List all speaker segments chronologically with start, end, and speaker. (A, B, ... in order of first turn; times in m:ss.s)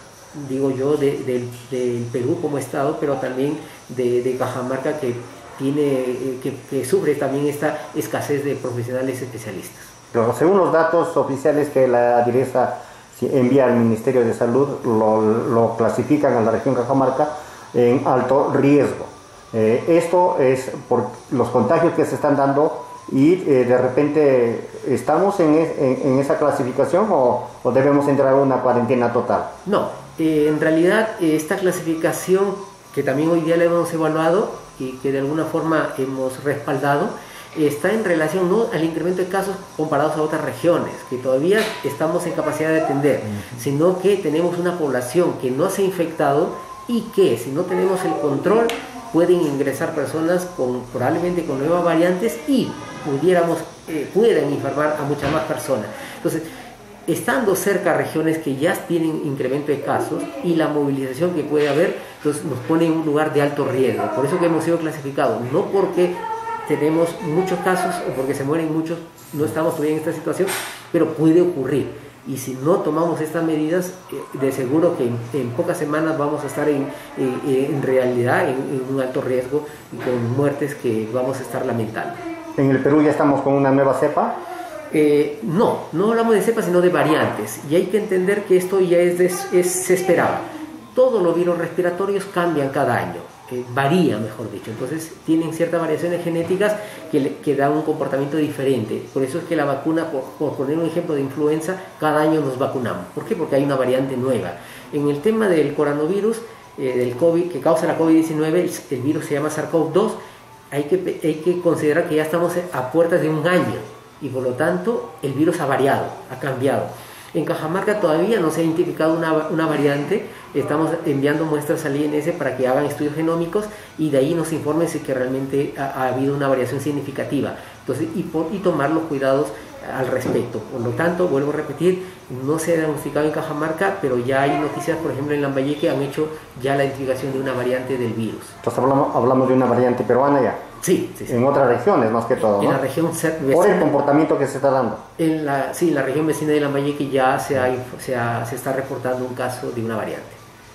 0:00.3-0:09.9 A
0:10.1-0:29.5 B
0:29.6-0:56.4 A
0:57.1-1:22.2 A
1:22.6-1:24.4 B
1:24.9-1:50.2 A
1:50.7-2:18.6 A
2:18.6-2:20.6 B
2:20.8-2:21.4 A
2:21.3-2:22.8 B
2:22.4-2:23.9 A
2:23.5-2:25.0 B
2:25.2-2:30.4 A